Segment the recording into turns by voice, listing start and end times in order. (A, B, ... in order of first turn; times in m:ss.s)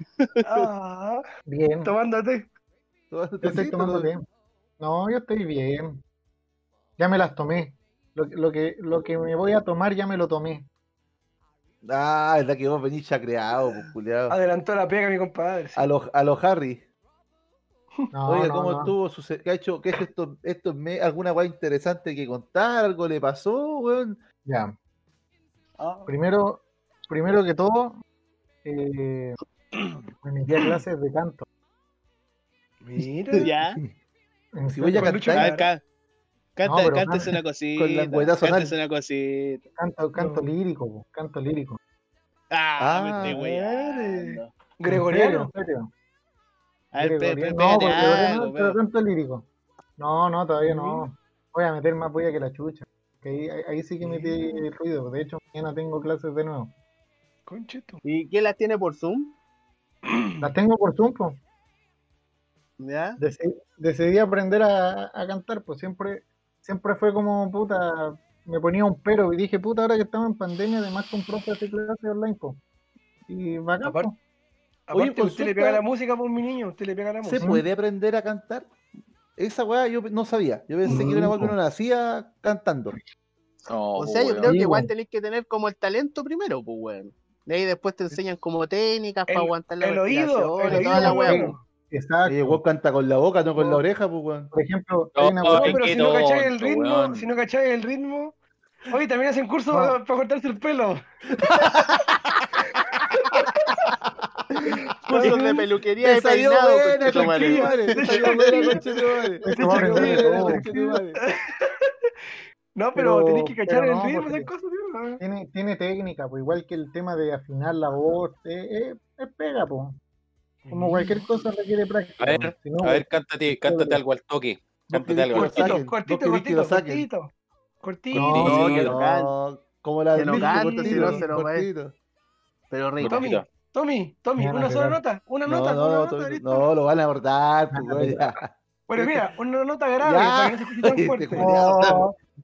0:00.4-0:01.2 A
0:01.5-0:01.9 B
0:01.8-0:02.5 A
0:03.1-0:04.1 C
0:03.4-0:04.2 B
0:04.8-0:06.0 B
0:07.0-0:10.6 B
0:11.8-0:14.4 C
0:14.3-0:15.9 A
0:15.7-0:16.8 C
0:18.1-0:18.9 B
0:18.3-0:24.2 C
0:24.4-0:24.7 B
0:25.8-0:26.1 A
0:26.1-0:28.0 B
0:28.6-0:29.4 B
0:29.7-0:30.0 A
0:30.2-0:31.4 B
0:32.8-0:33.5 A
0:33.4-0:33.8 D
0:34.5-0:35.3 B
0:34.7-0:35.5 C
0:35.0-0:35.7 A
0:35.3-0:35.8 D
0:36.6-0:39.6 D
0:36.6-0:37.4 B
0:37.8-0:38.7 C
0:39.8-0:41.8 B
0:40.2-0:40.5 A
0:42.5-0:44.5 D
0:42.8-0:43.4 C
0:43.2-0:45.5 A
0:44.9-0:45.9 B
0:46.9-0:48.8 D
0:47.0-0:49.4 B
0:50.0-0:56.7 B
0:50.6-0:51.1 A
0:54.0-0:54.6 A
0:57.5-0:58.0 A
0:58.0-0:59.4 D
1:00.0-1:00.4 A
1:00.4-1:01.4 B
1:02.8-1:03.2 D
1:03.2-1:12.6 B
1:13.3-1:14.2 B
1:13.8-1:14.1 A
1:14.9-1:17.5 A
1:14.9-1:15.8 C
1:17.2-1:18.7 C
1:17.4-1:17.6 B
1:19.4-1:23.0 C
1:20.9-1:21.5 B
1:20.9-1:21.2 A
1:23.7-1:24.5 E
1:24.0-1:31.5 D
1:24.4-1:24.9 B
1:29.3-1:31.6 A
1:30.6-1:32.6 B
1:32.2-1:34.5 C
1:34.5-1:35.8 B
1:35.2-1:37.3 E
1:35.5-1:38.4 A
1:38.9-1:41.0 A
1:39.7-1:40.0 B
1:41.4-1:43.4 C
1:45.1-1:45.6 A
1:45.1-1:48.8 D
1:46.0-1:51.2 C
1:47.0-1:48.9 A
1:49.4-1:50.6 B
1:49.5-1:52.1 A
1:52.7-1:55.2 A
1:52.9-1:54.5 B
1:55.2-2:00.0 B
2:00.6-2:01.3 A
2:00.7-2:04.0 B
2:02.2-2:05.8 E
2:04.9-2:07.1 C
2:05.3-2:08.5 A
2:08.1-2:08.6 B
2:08.1-2:08.9 E
2:08.4-2:09.3 D
2:08.4-2:11.9 C
2:10.1-2:11.7 D
2:10.2-2:11.2 A
2:12.7-2:13.3 D
2:13.0-2:13.4 E
2:13.0-2:16.7 A
2:14.4-2:15.0 B
2:15.4-2:19.2 C
2:17.7-2:18.3 B
2:18.9-2:21.5 A
2:20.0-2:22.0 C
2:21.4-2:22.1 B